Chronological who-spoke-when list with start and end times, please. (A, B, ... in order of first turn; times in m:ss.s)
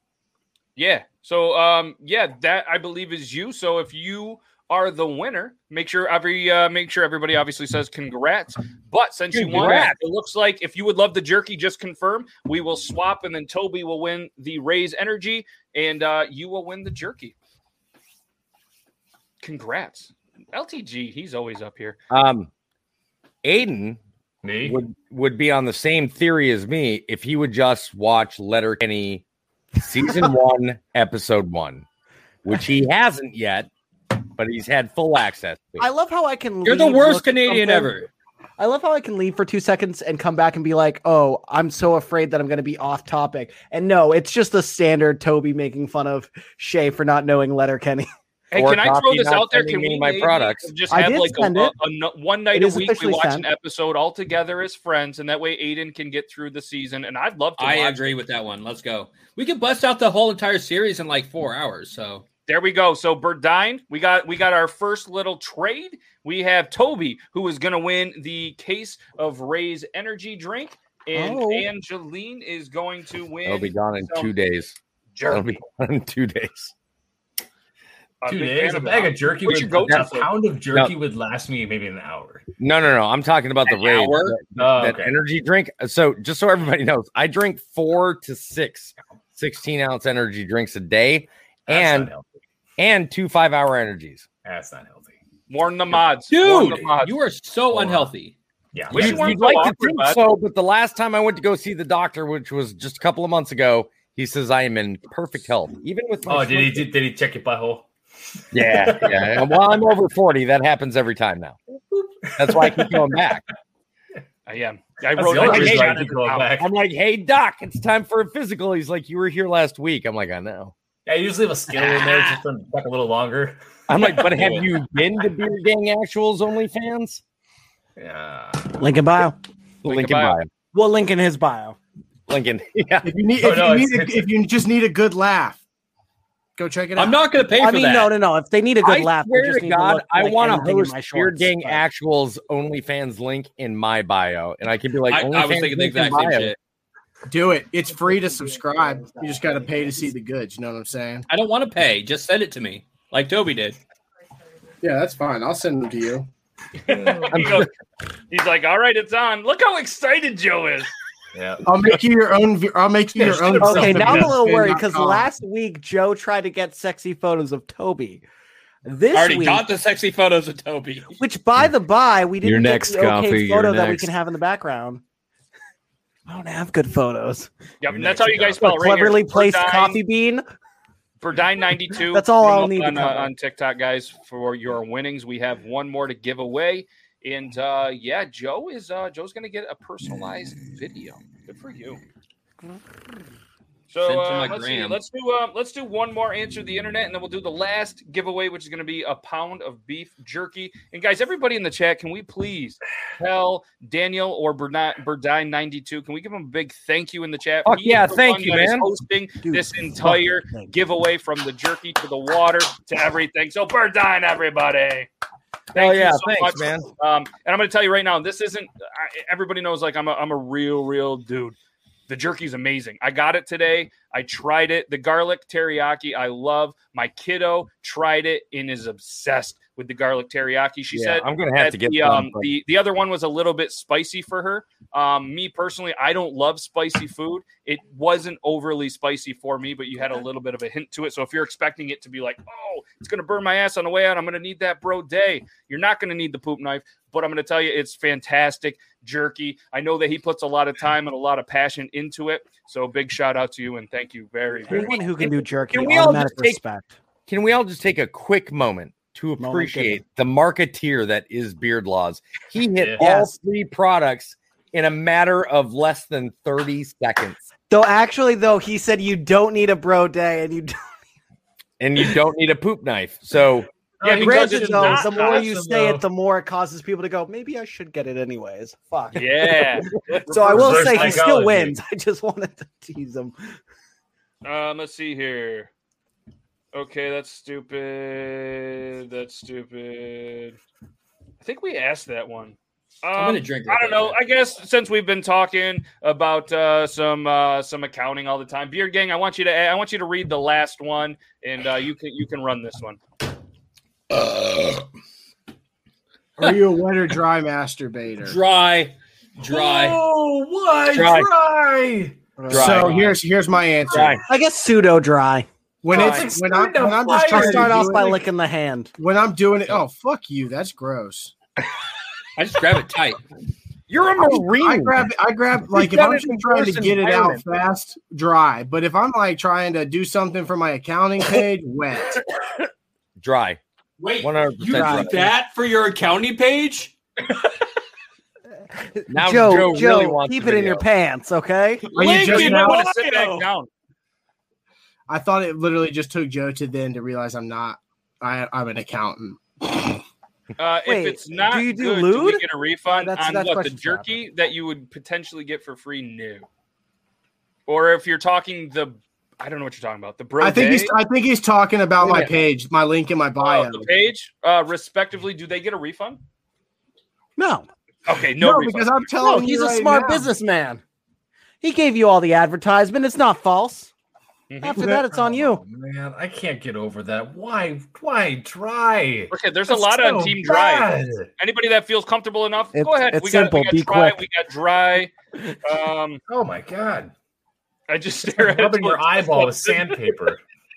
0:00.8-0:17.3 A
0:09.3-0:10.0 B
0:19.4-0:22.0 A
0:22.1-0:22.5 B
0:23.4-0:24.0 B
0:24.4-0:24.8 C
0:24.6-0:29.2 B
0:29.8-0:31.8 B
0:32.4-0:33.7 B
0:34.4-0:35.9 B
0:35.8-0:38.0 D
0:36.6-0:38.1 E
0:38.6-0:48.1 D
0:48.5-0:58.2 A
0:48.6-0:50.7 B
0:50.9-0:51.7 D
0:52.5-0:53.5 D
0:57.6-1:02.2 E
1:02.5-1:14.3 A
1:11.1-1:11.7 D
1:13.4-1:14.7 B
1:15.1-1:15.6 A
1:15.3-1:16.7 B
1:18.2-1:20.3 A
1:18.3-1:22.4 C
1:22.6-1:32.1 B
1:23.6-1:24.4 E
1:24.6-1:25.1 C
1:31.7-1:32.2 C
1:32.8-1:34.2 B
1:34.4-1:35.1 C
1:35.5-1:37.2 A
1:36.3-1:38.4 E
1:37.7-1:38.1 C
1:38.7-1:39.6 C
1:38.9-1:40.2 A
1:38.9-1:46.9 B
1:46.3-1:47.9 C
1:48.5-1:51.6 B
1:48.6-1:49.5 C
1:52.2-1:53.2 C
1:52.4-1:53.4 B
1:54.4-1:56.5 A
1:55.1-1:56.7 C
1:55.4-2:00.7 B
2:01.0-2:03.6 C
2:01.9-2:02.3 B
2:03.9-2:07.2 B
2:08.0-2:08.7 C
2:08.8-2:09.4 D
2:09.8-2:10.5 B
2:09.8-2:10.4 A
2:10.7-2:11.8 D
2:12.3-2:13.1 B
2:13.0-2:15.6 F
2:13.4-2:14.3 C
2:16.6-2:17.2 F
2:17.0-2:18.1 E
2:17.6-2:21.8 D
2:18.8-2:26.5 B
2:25.1-2:26.6 E
2:27.3-2:31.3 F
2:28.0-2:30.0 D
2:31.3-2:33.8 E
2:34.8-2:36.3 F
2:36.9-2:37.7 A
2:36.9-2:37.6 C
2:37.3-2:37.7 B
2:38.3-2:40.9 A
2:41.3-2:41.6 C
2:41.6-2:45.2 F
2:43.1-2:44.4 C
2:43.6-2:48.2 D
2:48.8-2:49.7 D
2:49.1-2:51.1 E
2:51.1-2:55.0 D
2:53.0-2:53.6 C
2:56.2-2:57.5 D
2:57.8-3:00.0 A
2:57.9-2:58.6 C
2:58.6-3:00.4 D
3:01.2-3:12.0 A
3:02.0-3:03.3 D
3:13.9-3:35.1 A
3:14.0-3:15.0 E
3:27.6-3:28.9 B
3:29.4-3:30.7 D
3:35.7-3:36.9 B
3:35.7-3:41.6 A
3:42.1-4:15.0 A
3:50.9-3:52.5 B
4:14.7-4:16.9 D
4:14.8-4:16.6 B
4:17.3-4:27.4 B
4:19.4-4:20.0 D
4:22.7-4:23.0 C
4:23.0-4:23.3 D
4:27.7-4:30.7 D
4:31.8-4:33.6 B
4:34.0-4:36.0 C
4:34.0-4:43.4 D
4:34.0-4:35.5 A
4:39.1-4:41.2 A
4:40.5-4:41.8 C
4:44.4-4:45.7 A
4:46.7-4:50.6 A
4:51.4-5:03.0 A
4:53.2-4:54.2 E
5:06.4-5:08.4 F
5:08.2-5:10.0 E
5:09.4-5:12.7 C
5:10.9-5:11.3 B
5:12.4-5:14.2 F
5:12.5-5:13.1 B
5:12.7-5:13.1 E
5:13.9-5:14.2 B
5:14.3-5:15.5 D
5:15.8-5:18.2 F
5:15.9-5:17.9 C
5:15.9-5:16.2 E
5:17.3-5:18.9 D
5:19.0-5:21.3 F
5:22.4-5:23.2 E
5:23.9-5:25.1 B
5:24.1-5:32.2 F
5:25.7-5:27.4 B
5:33.2-5:33.6 B
5:34.0-5:36.9 E
5:34.2-5:35.4 B
5:34.8-5:35.1 F
5:39.1-5:42.0 D
5:39.1-5:40.8 B
5:41.9-5:42.9 F
5:41.9-5:43.4 E
5:42.0-5:43.7 A
5:45.1-5:50.0 F
5:50.6-5:56.4 A
5:50.8-5:54.2 D
5:57.7-6:00.9 A
6:00.4-6:03.9 F
6:02.0-6:02.3 B
6:03.4-6:06.2 A
6:07.4-6:07.7 D
6:08.1-6:09.1 A
6:08.4-6:10.3 F
6:09.2-6:10.8 D
6:11.6-6:13.9 D
6:14.5-6:14.9 A
6:14.6-6:15.6 D
6:14.8-6:21.3 C
6:19.3-6:25.1 A
6:22.7-6:24.2 D
6:25.6-6:26.2 A
6:26.3-6:27.1 C
6:27.9-6:30.1 A
6:28.2-6:30.4 C